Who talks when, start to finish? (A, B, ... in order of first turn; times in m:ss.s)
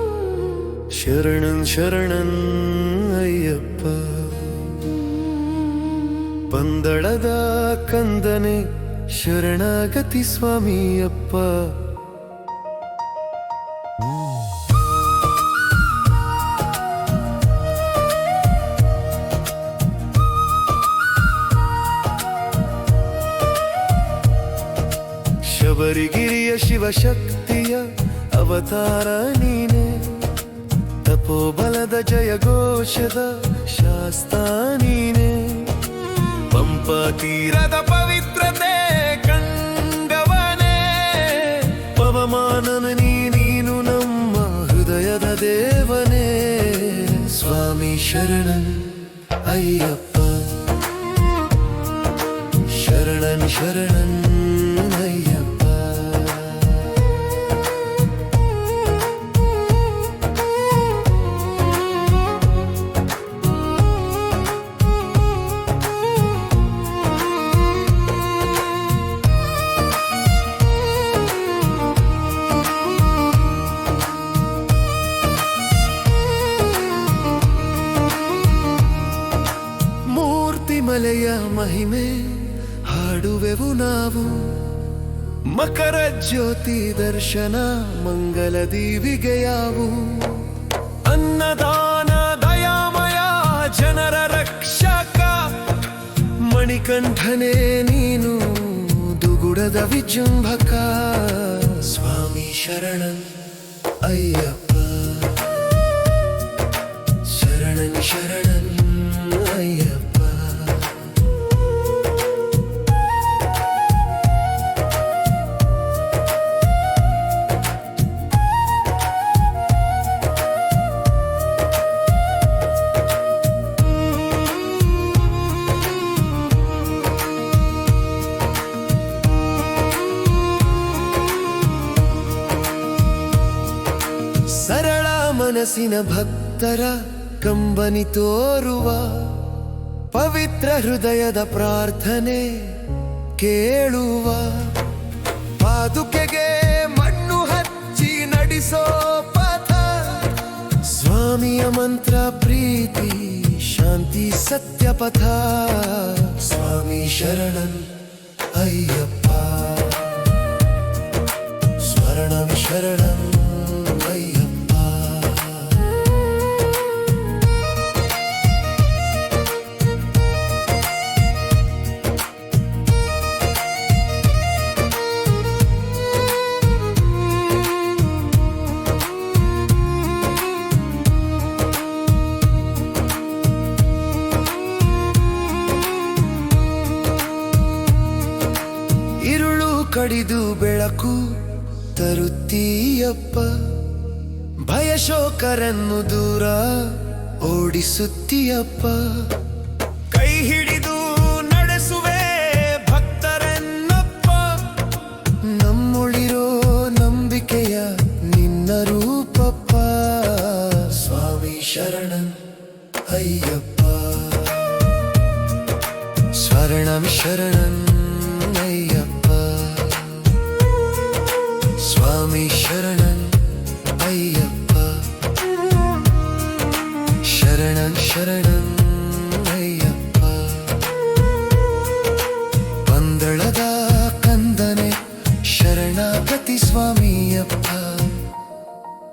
0:00.9-0:04.8 A
0:06.4-0:11.9 A
0:25.4-0:30.4 A
0:31.0-0:35.9 A
0:36.4-0:50.7 A
0:52.6-0:57.1 A
1:20.1-1:24.8 A
1:25.5-1:35.8 A
1:36.4-1:43.4 A
1:44.0-1:45.7 A
1:47.2-1:51.2 A
2:14.4-2:19.5 A
2:20.1-2:24.9 A
2:25.6-2:38.0 A
2:38.5-2:40.4 A
2:41.8-2:45.9 A
3:09.2-3:13.9 A
3:14.6-3:19.4 A
3:20.1-3:32.4 A
3:33.0-3:34.9 A
3:36.3-3:40.4 A
3:41.7-3:45.1 A
3:47.2-3:50.9 A
3:52.8-3:58.3 A